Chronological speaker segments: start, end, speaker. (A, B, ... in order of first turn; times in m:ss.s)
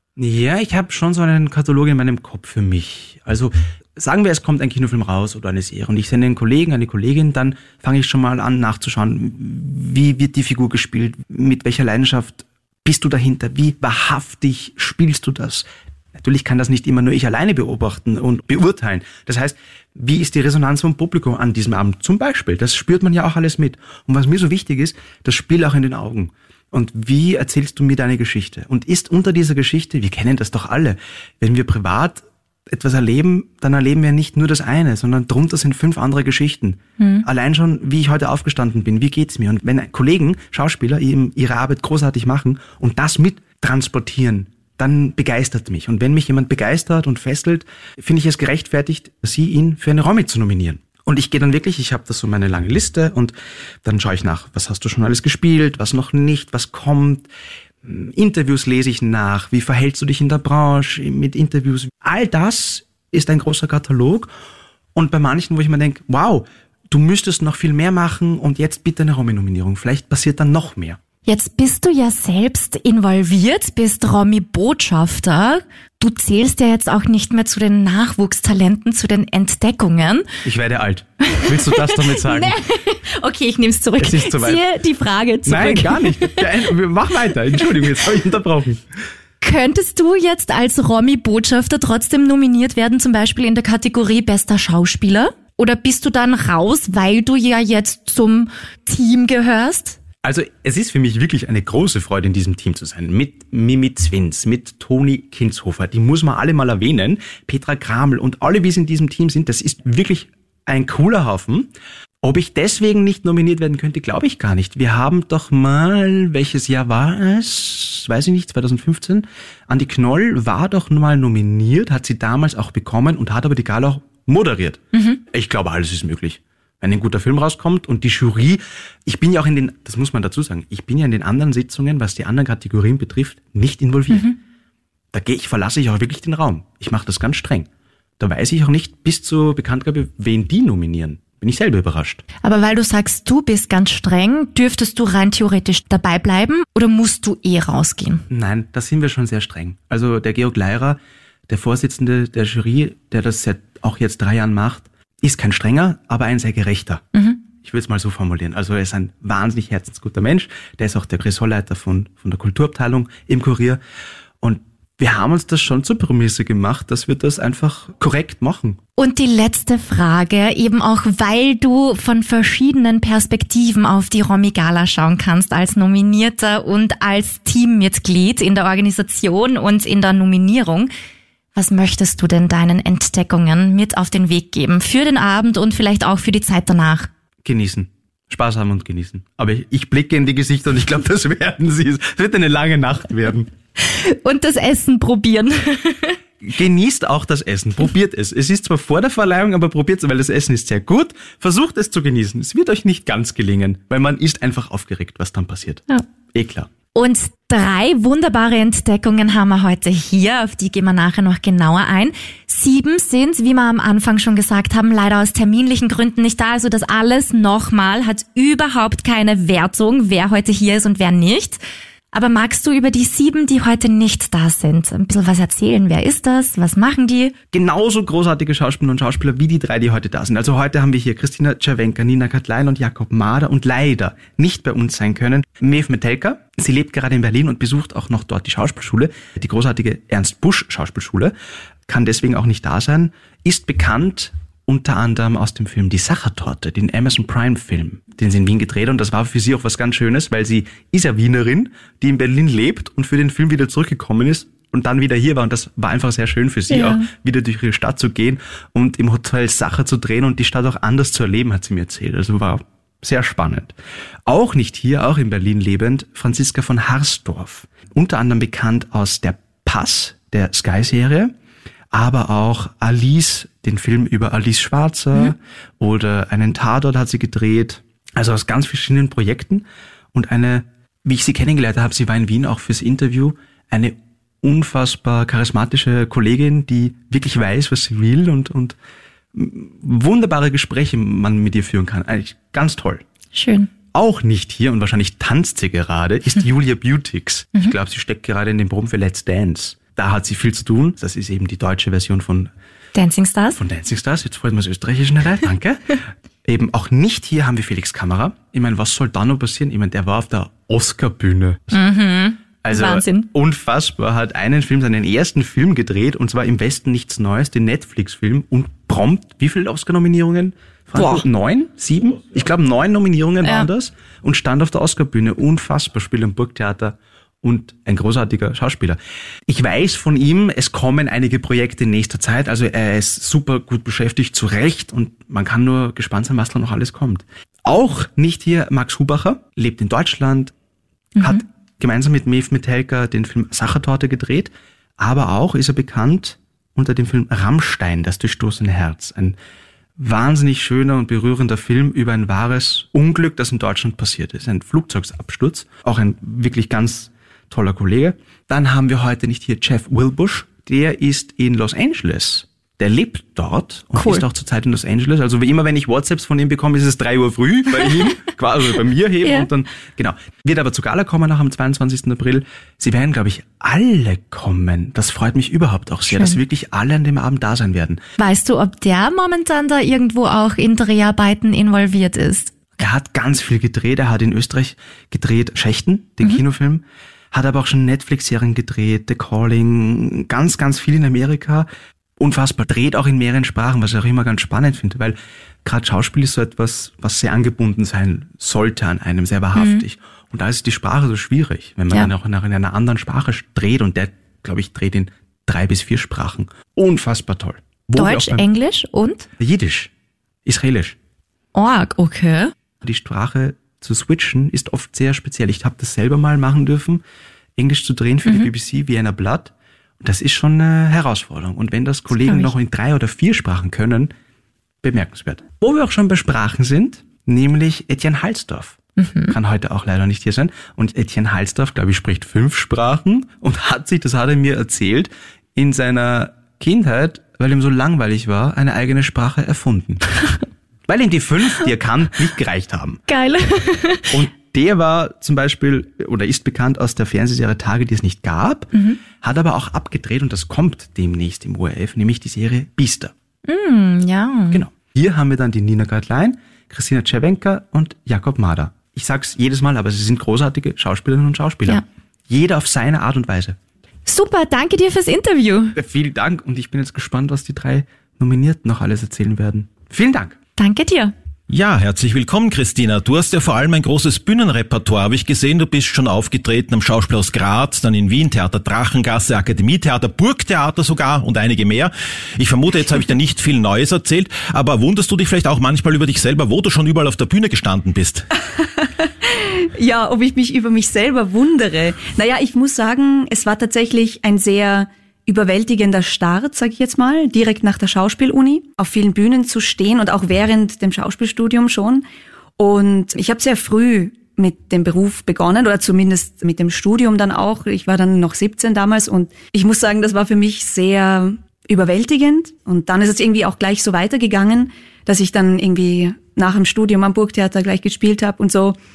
0:00.2-0:57.3 A
0:37.0-0:37.2 B
0:57.8-1:04.3 A
1:04.9-1:11.0 A
1:11.2-1:20.2 B
1:20.4-1:22.6 A
1:21.4-1:26.4 B
1:24.0-1:24.6 A
1:25.4-1:28.8 A
1:29.4-1:40.0 B
1:40.2-1:51.7 A
1:52.2-2:14.3 A
2:04.9-2:05.2 B
2:14.1-2:14.4 B
2:15.1-2:17.7 A
2:18.2-2:22.2 A
2:22.4-2:28.2 B
2:28.3-2:37.0 A
2:37.6-2:43.8 A
2:44.4-2:48.8 A
2:49.0-3:00.9 B
3:01.5-3:07.1 B
3:07.4-3:13.5 A
3:13.8-3:16.2 B
3:16.4-3:26.7 A
3:26.9-3:41.6 B
3:42.1-3:47.3 B
3:47.5-4:01.3 A
4:01.9-4:23.7 A
4:16.7-4:17.1 B
4:24.2-4:31.3 A
4:31.9-4:48.8 A
4:49.3-4:53.0 A
4:53.3-4:53.7 B
4:53.9-5:02.5 A
5:02.9-5:03.6 B
5:03.5-5:11.8 A
5:11.7-5:13.3 B
5:12.6-5:40.5 A
5:21.0-5:21.2 B
5:41.2-5:49.4 A
5:50.0-6:18.0 A
6:03.9-6:04.2 B
6:16.1-6:16.4 B
6:18.2-6:22.7 B
6:22.8-6:48.4 A
6:39.6-6:39.8 B
6:48.0-6:49.3 B
6:49.4-6:49.9 A
6:50.4-6:51.0 A
6:51.5-6:52.5 B
6:52.8-6:57.0 A
6:57.6-7:04.1 A
7:02.1-7:02.5 B
7:04.8-7:20.0 A
7:09.0-7:09.3 B
7:20.9-7:23.0 A
7:23.1-7:24.2 B
7:24.1-7:33.1 A
7:28.7-7:29.0 B
7:33.5-7:34.6 B
7:34.5-7:43.6 A
7:44.0-7:45.8 B
7:45.7-7:50.4 A
7:50.6-7:51.1 B
7:51.5-8:08.3 C
8:08.8-8:22.0 D
8:22.6-8:38.8 D